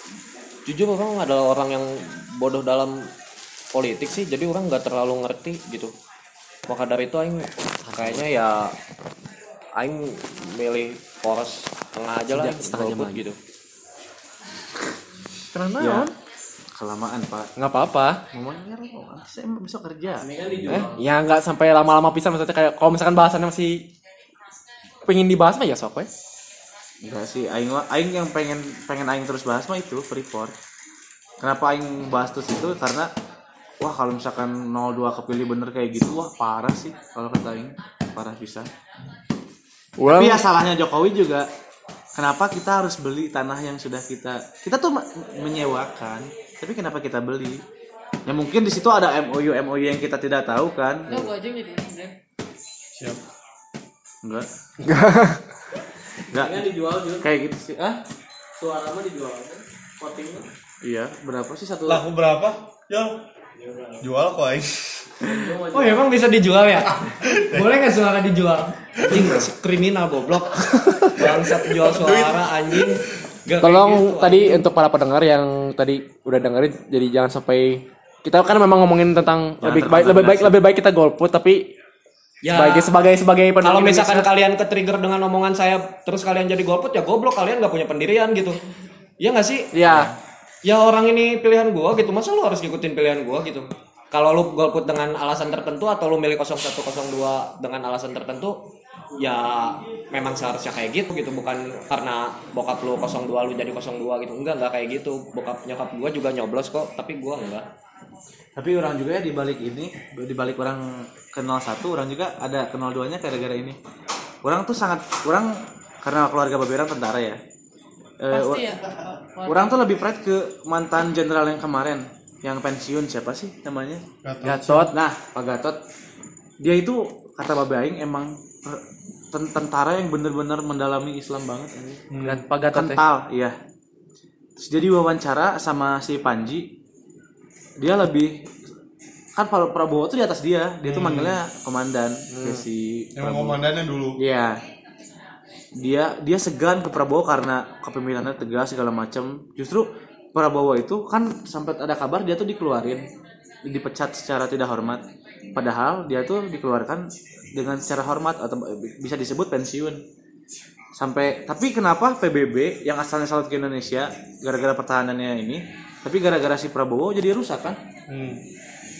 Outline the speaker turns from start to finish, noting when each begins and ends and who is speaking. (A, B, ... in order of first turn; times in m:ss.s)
0:00.6-0:03.1 A
0:03.7-0:05.9 A
0:06.7-0:08.8 A
0:07.9-0:08.2 B
0:09.8-0:13.4 A
0:12.3-0:13.2 B
0:15.5-0:16.1 B
0:15.8-0:16.1 C
0:16.8-0:17.5 C
0:17.6-0:18.2 B
0:18.3-0:20.9 C
0:20.5-0:23.9 B
0:20.7-0:20.9 A
0:25.0-0:26.1 B
0:27.0-0:30.5 C
0:31.4-0:33.1 C
0:33.8-0:38.7 C
0:40.0-0:40.4 B
0:40.1-0:41.5 C
0:42.2-0:47.6 C
0:48.2-0:51.3 C
0:51.1-0:52.2 D
0:53.0-0:53.2 E
0:54.8-0:55.4 B
0:56.3-0:58.0 C
0:56.4-0:57.2 B
0:58.6-1:00.4 B
1:00.8-1:02.0 C
1:01.8-1:03.2 E
1:04.0-1:05.3 E
1:05.2-1:05.9 B
1:05.3-1:05.5 C
1:05.7-1:14.6 A
1:07.2-1:07.7 E
1:10.8-1:11.2 B
1:11.7-1:12.9 E
1:13.6-1:21.7 B
1:19.6-1:20.6 C
1:22.4-1:22.9 A
1:22.5-1:24.3 B
1:23.6-1:28.6 A
1:29.2-1:29.7 A
1:29.7-1:30.1 B
1:29.8-1:30.2 C
1:30.6-1:47.7 A
1:48.6-1:53.8 C
1:54.4-1:57.4 C
1:58.2-1:58.7 C
1:58.3-1:59.7 D
1:59.4-2:04.0 C
2:04.2-2:04.9 E
2:04.4-2:04.9 B
2:04.9-2:05.8 C
2:06.6-2:12.0 C
2:12.1-2:12.4 E
2:12.2-2:13.0 B
2:12.7-2:13.6 C
2:14.6-2:16.7 C
2:17.8-2:18.4 C
2:19.4-2:23.6 C
2:20.8-2:21.4 E
2:22.3-2:22.6 B
2:23.2-2:24.2 E
2:24.2-2:24.6 C
2:25.8-2:33.0 C
2:33.6-2:35.0 C
2:35.5-2:40.0 C
2:41.0-2:47.8 C
2:48.1-2:48.4 E